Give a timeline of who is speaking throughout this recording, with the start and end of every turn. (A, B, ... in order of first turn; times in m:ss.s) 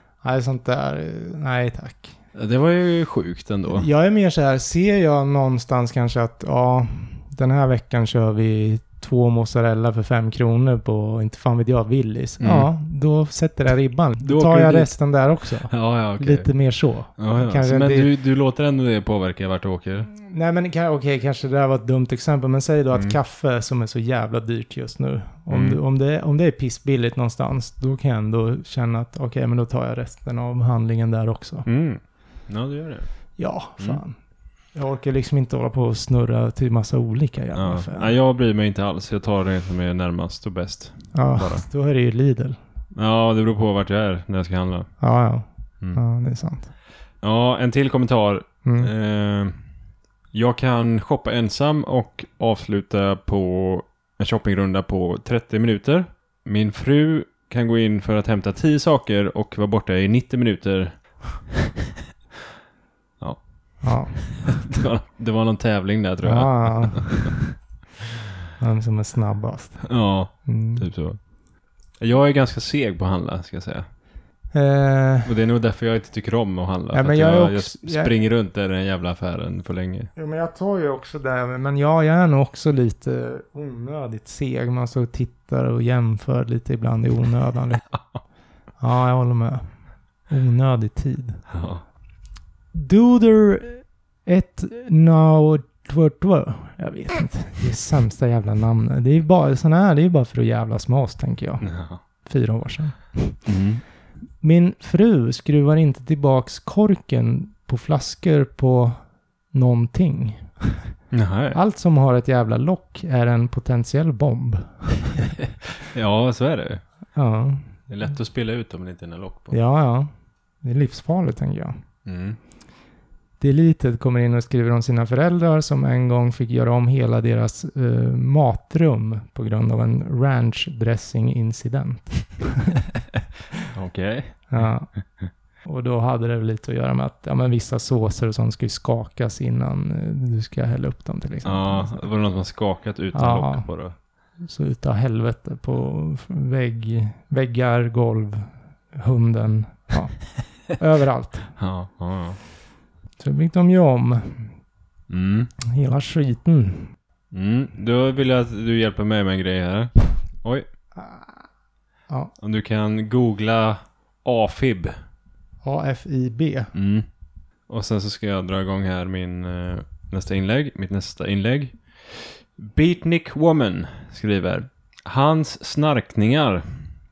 0:00.2-0:02.2 A
0:02.3-0:03.9 B
0:03.7-0:18.1 A
0:12.4-0:12.7 B
0:14.2-0:14.9 B
0:15.7-0:16.5 B
0:17.2-0:20.1 B
0:20.1-0:31.7 A
0:25.5-0:25.8 B
0:31.7-0:33.1 B
0:33.4-0:34.2 A
0:34.7-0:38.1 A
0:37.6-0:41.6 B
0:41.1-0:42.6 A
0:43.0-0:44.9 B
0:45.0-0:46.7 A
0:47.2-0:49.5 B
0:48.6-0:48.9 A
0:50.3-1:01.7 B
1:03.2-1:07.3 B
1:03.8-1:04.2 A
1:06.2-1:07.6 A
1:08.6-1:09.9 A
1:09.8-1:11.2 B
1:10.4-1:10.9 A
1:12.0-1:13.8 B
1:14.5-1:15.3 A
1:15.3-1:20.1 B
1:16.9-1:18.1 A
1:20.2-1:27.9 A
1:28.8-1:29.6 A
1:30.3-1:31.4 A
1:31.5-1:31.8 B
1:32.7-1:41.7 A
1:41.6-1:42.0 B
1:42.2-1:43.4 A
1:43.5-1:43.8 B
1:44.4-1:49.0 A
1:49.5-1:50.8 A
1:51.1-1:51.6 B
1:51.5-1:55.4 A
1:55.8-1:56.8 B
1:57.2-1:57.7 A
1:57.9-1:59.6 B
1:59.5-2:00.1 A
2:00.6-2:01.8 A
2:02.0-2:02.4 B
2:03.4-2:12.8 A
2:13.7-2:14.7 B
2:14.5-2:14.9 A
2:15.6-2:22.1 A
2:21.4-2:24.0 B
2:23.1-2:23.7 A
2:24.4-2:31.5 A
2:31.6-2:32.4 B
2:33.2-2:34.5 A
2:35.1-2:35.5 B
2:35.6-2:36.9 A
2:37.3-2:40.7 B
2:41.0-2:41.4 A
2:42.4-2:44.9 B
2:45.6-2:46.7 A
2:46.7-2:47.1 B
2:47.7-2:56.8 B